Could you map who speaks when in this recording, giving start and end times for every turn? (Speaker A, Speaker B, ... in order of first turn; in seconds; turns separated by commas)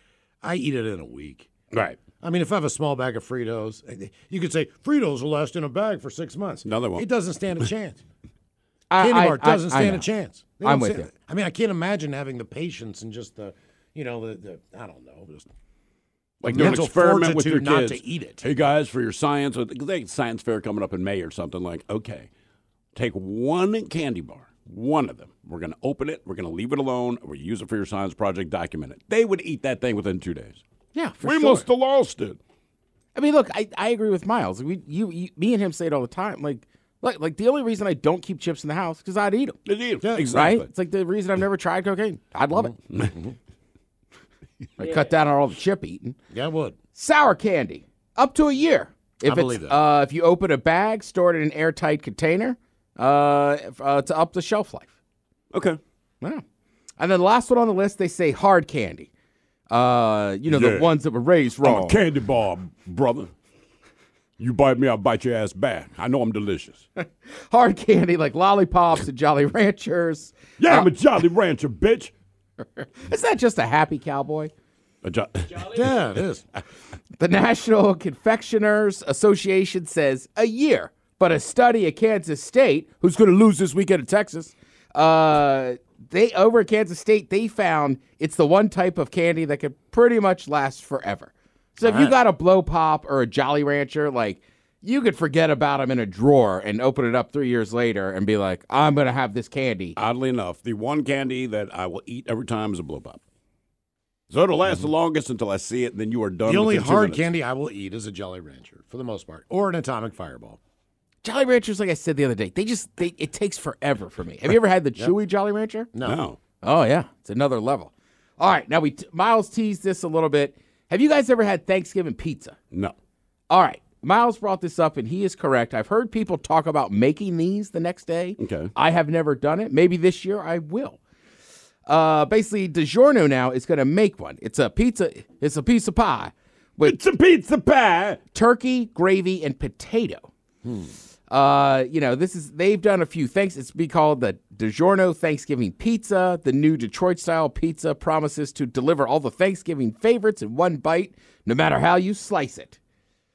Speaker A: 0.4-1.5, Speaker B: 1.7-2.0, Speaker A: 2.2-8.0, Speaker B: 6.6-7.1, Speaker C: 8.9-10.1, Speaker A: 9.0-15.5, Speaker C: 10.6-11.1, Speaker B: 16.4-22.3, Speaker A: 16.4-18.5, Speaker B: 22.9-30.6, Speaker C: 30.9-31.6, Speaker B: 31.2-32.4, Speaker C: 33.1-39.6, Speaker B: 39.6-40.7, Speaker A: 40.0-40.3, Speaker C: 40.3-42.8, Speaker A: 43.0-43.3, Speaker C: 44.8-46.1, Speaker A: 46.3-46.8, Speaker C: 46.9-54.9, Speaker A: 49.2-49.8, Speaker B: 55.5-55.8, Speaker C: 57.0-59.1, Speaker C: 59.7-62.0, Speaker B: 60.5-60.9, Speaker B: 61.6-63.3, Speaker B: 64.4-66.8, Speaker C: 67.0-70.9, Speaker B: 70.6-72.1, Speaker C: 72.8-74.5, Speaker B: 75.0-76.0, Speaker A: 75.6-76.4, Speaker C: 77.2-100.0, Speaker A: 91.8-92.2, Speaker B: 100.0-103.2, Speaker B: 104.3-107.3, Speaker A: 106.4-110.6, Speaker C: 111.2-115.9, Speaker A: 115.9-116.2, Speaker B: 116.0-116.4, Speaker C: 116.6-122.6, Speaker C: 123.5-131.0, Speaker B: 128.4-128.7, Speaker C: 131.8-137.0, Speaker B: 136.8-138.2, Speaker C: 138.3-140.3, Speaker A: 140.6-140.9, Speaker C: 141.3-152.8